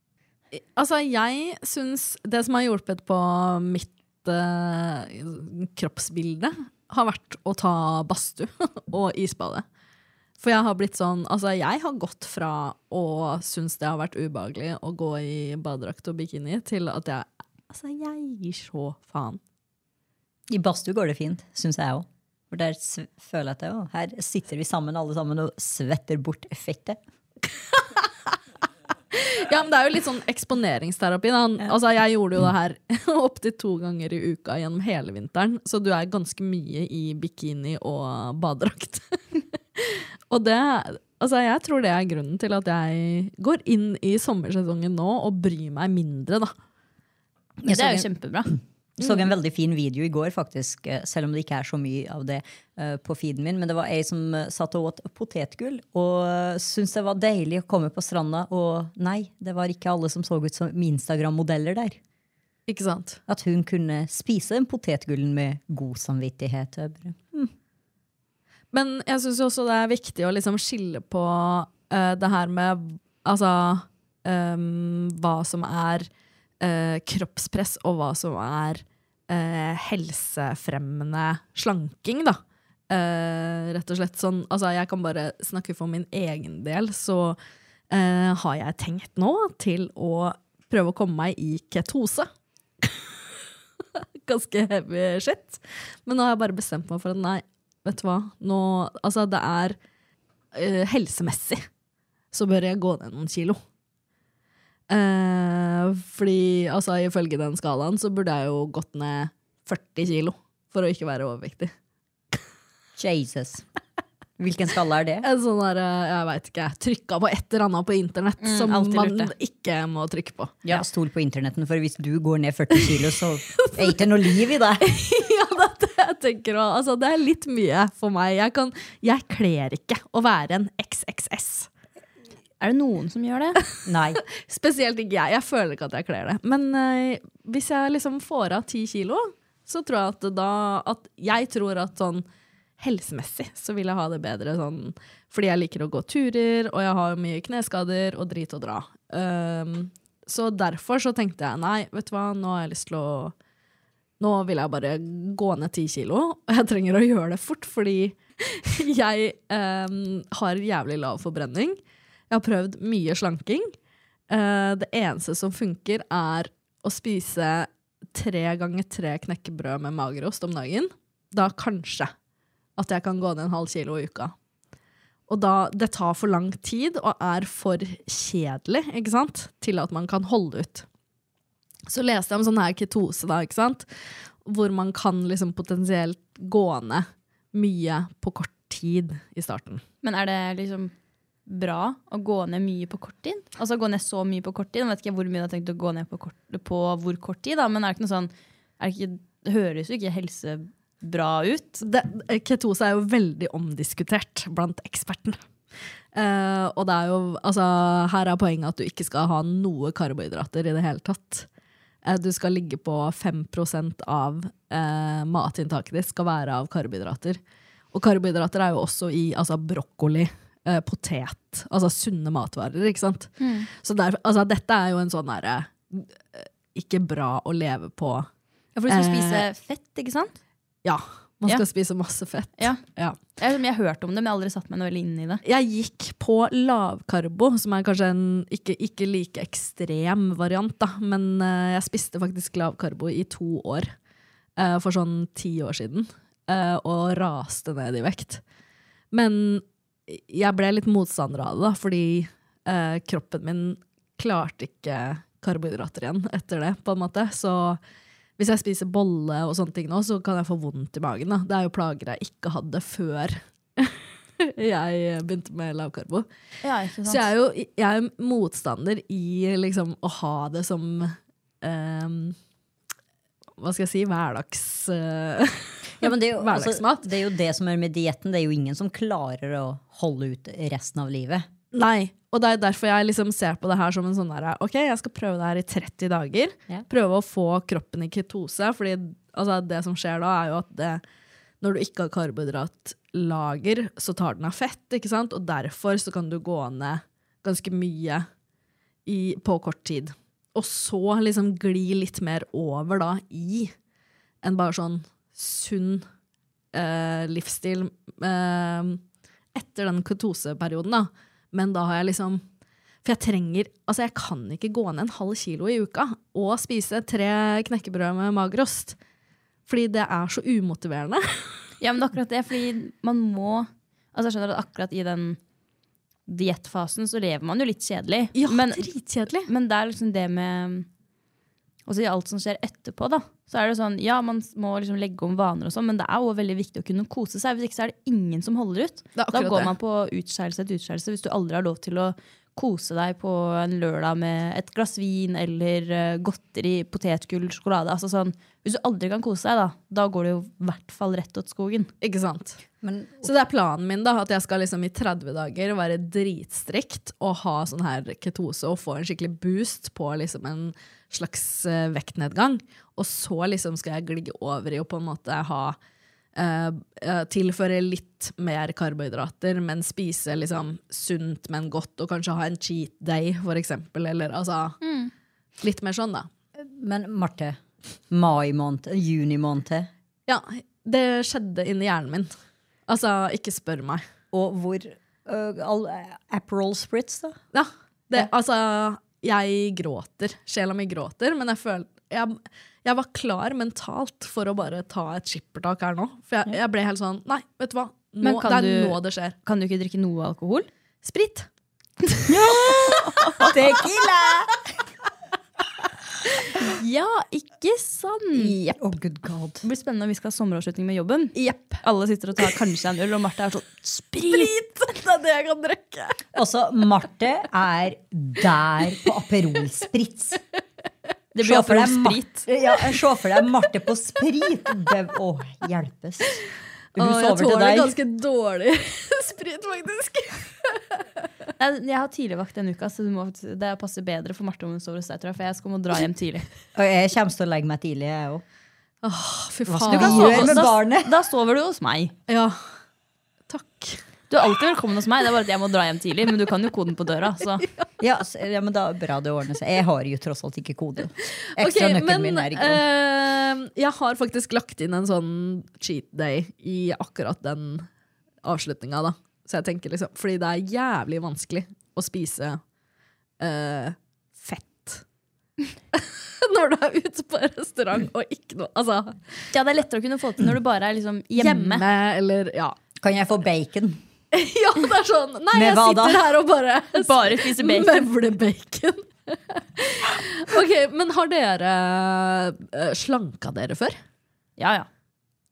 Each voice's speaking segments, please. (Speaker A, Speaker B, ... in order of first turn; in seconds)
Speaker A: 0.5-9.7, 10.4-19.4, 29.1-39.0, 39.8-46.5, 62.7-63.2, 68.7-76.1, 76.6-82.4, 82.9-87.4, 87.9-92.3, 94.0-99.8, 100.5-101.6, 102.3-103.6, 104.9-111.7, 115.2-120.6, 123.6-124.0, 124.8-131.7, 134.4-142.2, 142.8-153.3, 154.2-161.8, 162.3-163.7, 164.3-172.1, 172.8-174.3, 175.3-180.8, 181.9-183.9, 184.4-189.8, 201.8-205.4, 206.1-211.5, 212.0-217.4, 217.9-228.3, 228.9-229.5, 230.8-233.2, 235.4-243.9, 244.6-248.4, 249.1-257.8, 258.4-266.3, 267.1-272.4, 273.6-277.1, 281.7-291.0, 291.6-298.3, 299.1-303.7, 304.4-306.1, 306.7-309.0, 309.5-312.4, 313.0-319.0, 319.7-321.6, 328.4-329.5, 339.2-339.7, 352.0-352.6, 353.2-365.8, 366.4-374.8, 375.6-376.3, 380.3-382.3, 382.9-384.0, 387.5-399.4, 401.0-401.5, 411.4-411.8, 414.3-416.2, 427.0-431.0, 439.0-440.6, 442.3-442.6, 443.5-444.0, 451.6-457.9, 458.4-462.6, 463.4-465.0, 465.9-469.2, 471.4-472.8, 474.3-484.0
Speaker B: 20.5-27.0, 47.6-62.0, 63.3-67.5, 113.0-113.7, 114.4-115.3, 120.7-124.9, 133.9-134.2, 276.0-281.5, 352.8-353.3, 376.6-377.6, 378.1-379.9, 384.3-387.4, 402.3-404.6, 408.4-409.6, 416.3-420.4, 421.4-426.4, 426.9-427.9, 436.8-438.4, 439.7-441.1, 448.0-452.8, 473.0-474.0, 475.5-476.2
Speaker C: 47.7-48.6, 118.4-119.3, 132.6-133.6, 190.0-190.9, 191.5-201.8, 223.4-223.7, 228.8-230.3, 233.4-235.4, 266.6-267.3, 321.8-325.4, 326.3-328.9, 329.5-330.9, 331.9-351.9, 374.8-375.1, 398.2-400.7, 406.6-408.7, 409.6-414.5, 421.4-422.5, 431.6-436.4, 439.9-442.1, 444.3-447.7, 469.5-471.9, 477.0-478.1, 484.6-484.9